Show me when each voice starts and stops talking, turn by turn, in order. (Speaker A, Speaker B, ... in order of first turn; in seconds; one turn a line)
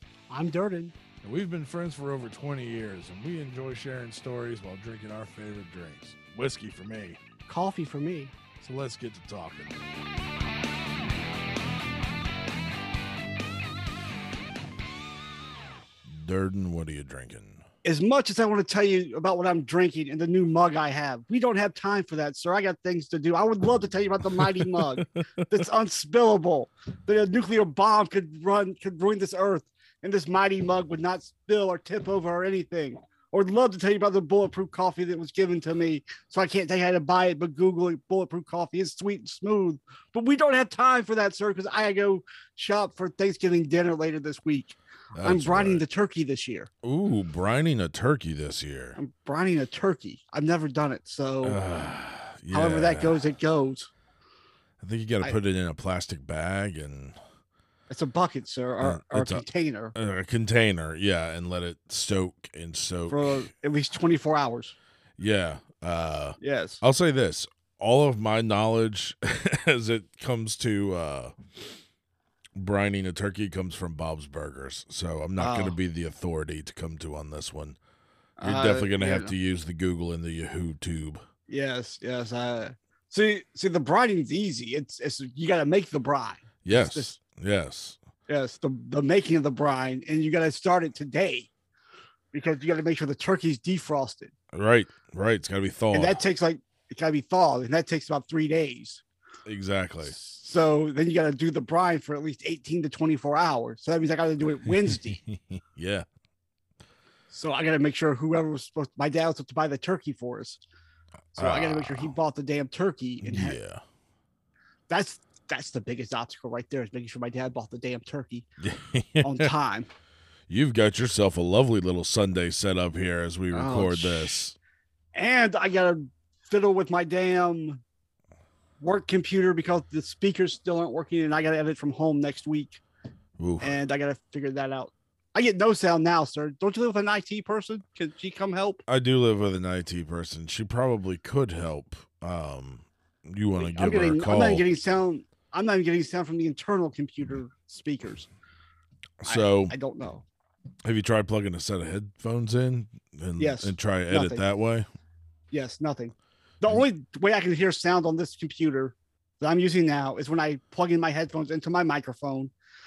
Speaker A: 0.3-0.9
Speaker B: 1.2-7.2
Speaker A: 7.5-8.3
Speaker B: 8.6-9.8
Speaker B: 16.0-17.6
Speaker A: 17.8-46.7
Speaker B: 24.4-25.2
Speaker B: 45.1-45.8
Speaker B: 46.8-49.0
Speaker A: 49.0-51.6
Speaker B: 51.4-53.2
Speaker A: 52.5-53.9
Speaker B: 54.8-57.1
Speaker A: 57.9-59.9
Speaker B: 58.8-63.5
Speaker A: 63.1-64.8
Speaker B: 65.2-71.3
Speaker A: 66.4-66.8
Speaker B: 72.5-77.8
Speaker A: 75.4-75.8
Speaker A: 78.4-79.3
Speaker B: 78.4-81.2
Speaker A: 81.5-87.1
Speaker B: 86.6-88.0
Speaker A: 88.3-91.5
Speaker A: 92.3-94.3
Speaker B: 94.5-96.2
Speaker A: 95.9-99.0
Speaker B: 99.5-100.1
Speaker A: 100.0-105.2
Speaker B: 104.8-106.0
Speaker A: 107.3-110.6
Speaker B: 111.3-112.1
Speaker A: 111.3-113.6
Speaker B: 113.2-113.8
Speaker A: 114.9-118.5
Speaker B: 118.6-119.5
Speaker A: 119.2-119.9
Speaker B: 120.5-124.5
Speaker A: 123.5-124.4
Speaker A: 125.1-127.8
Speaker A: 128.8-132.8
Speaker B: 133.4-133.8
Speaker A: 133.6-138.8
Speaker B: 138.9-144.6
Speaker A: 143.6-148.3
Speaker B: 149.2-149.7
Speaker A: 149.2-150.2
Speaker B: 150.8-154.9
Speaker A: 153.4-154.4
Speaker A: 155.5-162.5